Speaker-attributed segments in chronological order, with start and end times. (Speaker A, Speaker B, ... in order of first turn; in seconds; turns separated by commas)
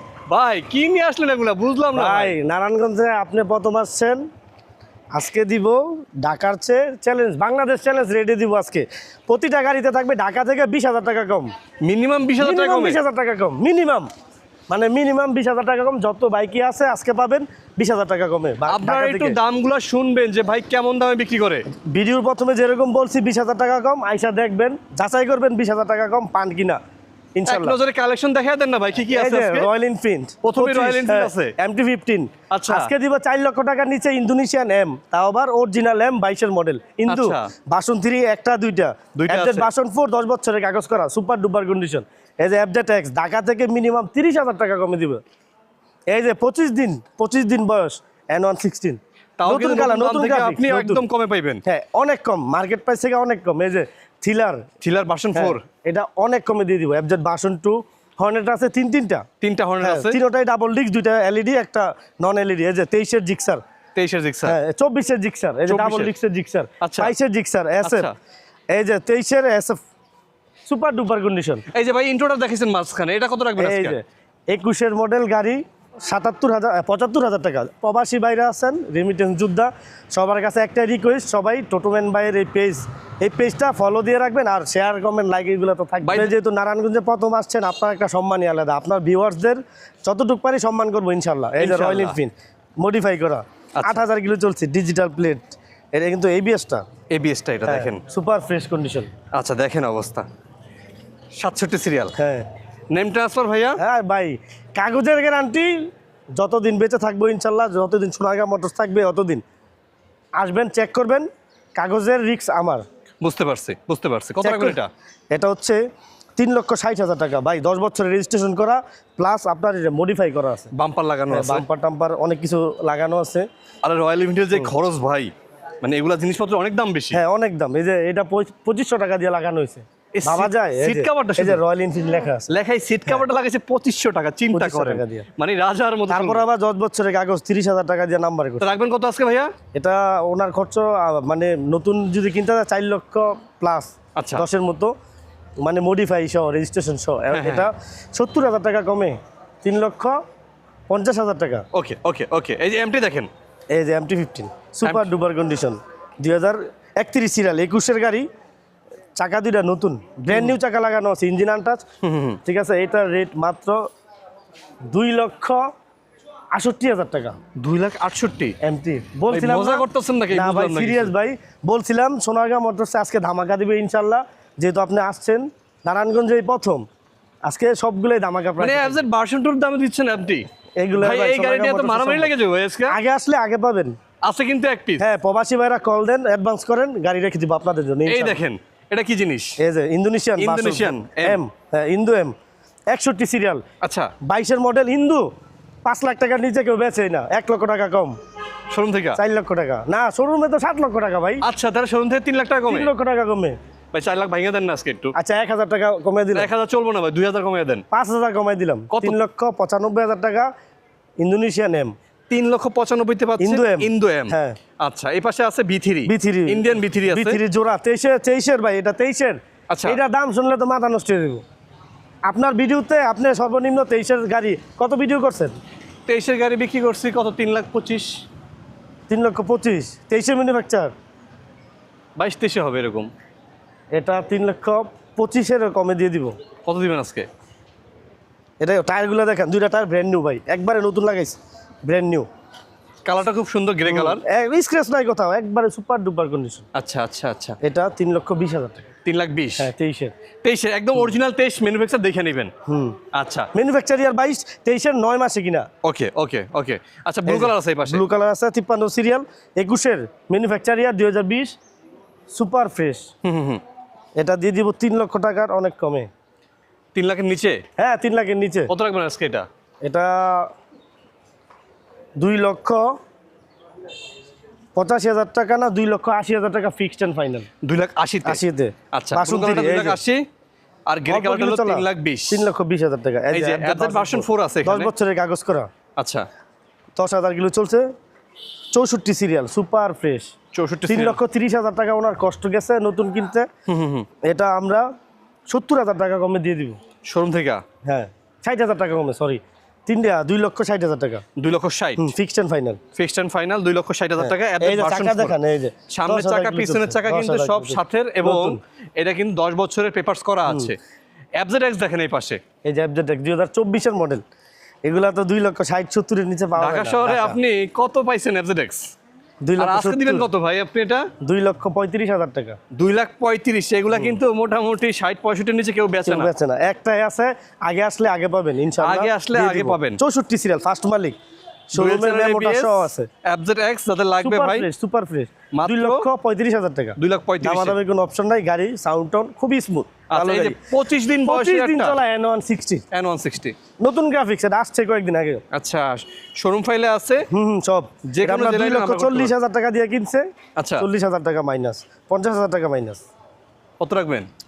Speaker A: 0.3-2.4, Speaker B: 1.9-4.2, Speaker B: 5.1-11.5, Speaker A: 11.8-13.0, Speaker B: 12.4-14.1, Speaker B: 14.7-19.4, Speaker A: 18.7-21.7, Speaker B: 21.7-26.8, Speaker B: 27.4-27.8, Speaker A: 27.5-29.7, Speaker B: 29.1-45.2, Speaker A: 30.4-31.5, Speaker A: 32.5-32.9, Speaker A: 37.1-37.5, Speaker A: 39.2-39.7, Speaker B: 46.1-51.0, Speaker A: 49.4-51.6, Speaker B: 51.7-54.6, Speaker A: 54.8-55.6, Speaker B: 55.3-59.2, Speaker A: 59.4-60.2, Speaker B: 59.8-63.6, Speaker A: 64.0-64.6, Speaker B: 64.5-68.1, Speaker A: 65.7-66.1, Speaker A: 66.8-67.1, Speaker A: 67.8-68.1, Speaker B: 68.7-69.8, Speaker B: 70.7-71.7, Speaker A: 71.7-74.0, Speaker B: 73.6-96.8, Speaker A: 86.0-86.3, Speaker A: 91.6-92.2, Speaker A: 93.8-94.0, Speaker A: 97.1-98.0, Speaker B: 97.7-99.1, Speaker A: 99.3-100.3, Speaker A: 101.4-102.2, Speaker B: 102.2-102.5, Speaker A: 102.9-103.8, Speaker B: 103.8-105.9, Speaker B: 106.4-109.4, Speaker B: 110.4-112.8, Speaker A: 113.2-114.9, Speaker B: 114.4-114.8, Speaker B: 115.3-115.8, Speaker B: 116.4-120.7, Speaker A: 120.7-121.7, Speaker B: 121.3-123.5, Speaker A: 123.8-125.3, Speaker A: 125.8-127.2, Speaker B: 127.1-132.5, Speaker A: 130.2-131.6, Speaker A: 132.5-136.4, Speaker B: 134.5-135.3, Speaker B: 136.1-138.7, Speaker A: 138.6-139.5, Speaker B: 139.7-144.9, Speaker A: 144.2-144.5, Speaker B: 145.6-150.2, Speaker A: 147.3-147.7, Speaker B: 150.9-151.7, Speaker A: 151.7-153.3, Speaker B: 153.7-158.3, Speaker B: 159.2-161.8, Speaker A: 160.3-160.6, Speaker A: 162.0-162.4, Speaker B: 162.4-163.8, Speaker B: 164.9-165.6, Speaker B: 166.6-167.4, Speaker A: 167.6-168.6, Speaker B: 168.6-176.8, Speaker A: 169.3-171.1, Speaker B: 177.4-179.0, Speaker A: 178.6-180.5, Speaker B: 180.8-182.3, Speaker A: 181.0-183.0, Speaker B: 182.9-183.9, Speaker A: 184.2-185.0, Speaker B: 185.0-188.4, Speaker A: 188.1-189.6, Speaker B: 189.6-192.3, Speaker A: 190.4-191.4, Speaker B: 192.9-193.6, Speaker A: 193.8-194.1, Speaker B: 194.2-195.2, Speaker B: 195.8-198.2, Speaker A: 198.7-199.2, Speaker B: 199.2-201.4, Speaker A: 201.4-202.9, Speaker B: 202.7-203.6, Speaker A: 203.9-205.1, Speaker B: 205.2-206.5, Speaker A: 206.3-207.8, Speaker B: 207.9-210.5, Speaker A: 208.9-209.2, Speaker B: 211.2-211.9, Speaker A: 212.3-217.4, Speaker B: 213.4-214.6, Speaker B: 216.1-221.4, Speaker A: 219.7-220.0, Speaker B: 222.3-225.6, Speaker A: 226.1-228.1, Speaker B: 229.1-230.9, Speaker A: 232.2-233.1, Speaker B: 233.9-236.4, Speaker A: 236.7-237.3, Speaker B: 238.6-242.3, Speaker A: 243.1-244.2, Speaker B: 243.9-246.7, Speaker A: 246.7-247.6, Speaker B: 247.6-248.9, Speaker A: 249.1-249.7, Speaker B: 249.6-250.1, Speaker A: 250.4-252.5, Speaker B: 252.7-253.0, Speaker A: 253.1-253.5, Speaker B: 253.5-255.7, Speaker A: 255.8-258.0, Speaker B: 257.3-261.6, Speaker B: 262.3-263.1, Speaker A: 263.2-263.6, Speaker B: 264.2-266.1, Speaker A: 266.9-267.6, Speaker B: 267.8-268.7, Speaker A: 268.7-269.5, Speaker B: 269.8-270.5, Speaker B: 272.2-272.9, Speaker B: 274.8-277.5, Speaker A: 277.6-278.4, Speaker B: 278.2-280.0, Speaker A: 278.9-280.2, Speaker A: 280.9-282.5, Speaker B: 281.1-285.7, Speaker A: 283.3-284.9, Speaker A: 286.0-286.3, Speaker B: 287.0-287.9, Speaker B: 288.7-290.3, Speaker A: 290.5-291.2, Speaker B: 290.9-293.5, Speaker A: 293.7-294.1, Speaker B: 294.2-294.9, Speaker B: 295.5-296.8, Speaker A: 297.1-297.6, Speaker B: 297.9-301.2, Speaker A: 301.4-302.1, Speaker B: 302.0-302.8, Speaker A: 303.0-305.4, Speaker B: 304.2-308.6, Speaker A: 305.9-310.8, Speaker B: 310.5-310.7, Speaker A: 311.4-312.4, Speaker B: 312.6-314.2, Speaker B: 314.9-317.4, Speaker A: 316.6-318.9, Speaker B: 319.4-320.3, Speaker A: 319.6-321.1, Speaker B: 321.2-322.6, Speaker A: 322.7-326.3, Speaker B: 326.1-331.2, Speaker A: 328.8-330.0, Speaker B: 331.7-333.1, Speaker A: 331.7-334.7, Speaker B: 334.2-340.6, Speaker A: 335.5-336.1, Speaker A: 337.0-337.8, Speaker A: 340.1-342.0, Speaker B: 341.2-342.8, Speaker A: 342.9-343.6, Speaker B: 343.8-345.4, Speaker A: 345.5-347.3, Speaker B: 347.3-353.1, Speaker A: 348.1-349.3, Speaker A: 350.6-350.9, Speaker A: 353.8-354.3